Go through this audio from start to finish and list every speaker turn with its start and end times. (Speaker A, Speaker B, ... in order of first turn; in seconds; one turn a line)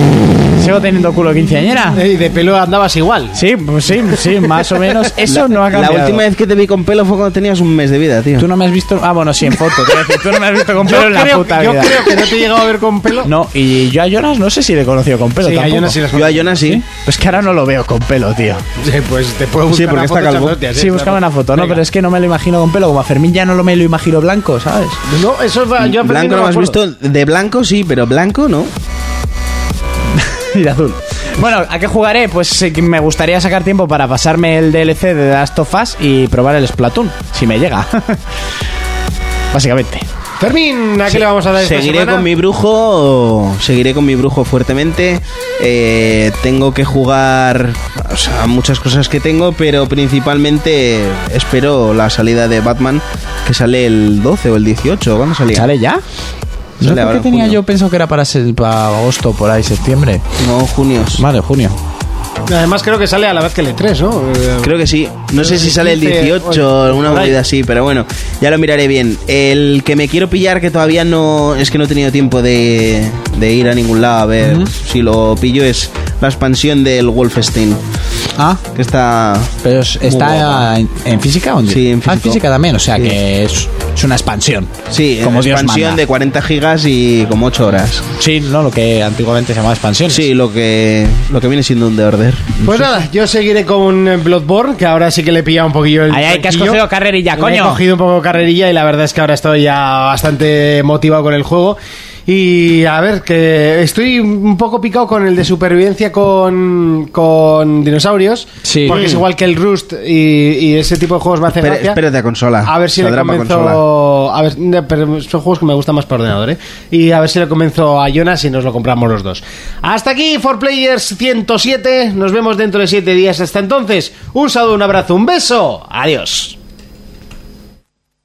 Speaker A: 0.5-2.0
Speaker B: 1.9-3.4
Speaker A: 3.3-6.2
Speaker B: 3.9-4.6
Speaker C: 5.2-8.5
Speaker A: 8.4-12.2
Speaker B: 10.8-13.3
Speaker A: 13.2-16.0
Speaker B: 15.4-16.7
Speaker C: 16.1-16.8
Speaker A: 16.6-18.6
Speaker B: 18.8-21.8
Speaker C: 19.7-20.6
Speaker A: 20.7-25.0
Speaker B: 25.1-26.8
Speaker C: 25.8-28.7
Speaker A: 30.1-38.2
Speaker A: 39.5-40.0
Speaker B: 40.4-42.3
Speaker C: 41.6-55.7
Speaker A: 55.5-56.0
Speaker C: 56.8-57.6
Speaker A: 56.8-60.2
Speaker C: 60.4-61.2
Speaker A: 61.1-61.8
Speaker B: 62.5-64.8
Speaker C: 64.6-77.8
Speaker B: 65.3-67.4
Speaker A: 74.4-74.7
Speaker C: 78.7-80.7
Speaker A: 79.6-84.7
Speaker C: 81.7-82.4
Speaker C: 84.9-88.1
Speaker A: 85.2-86.0
Speaker A: 88.2-90.2
Speaker C: 90.1-92.5
Speaker A: 92.6-92.9
Speaker B: 92.6-96.8
Speaker A: 96.1-97.8
Speaker B: 97.3-112.0
Speaker A: 108.6-109.0
Speaker C: 108.9-109.2
Speaker C: 111.6-113.8
Speaker B: 112.6-126.6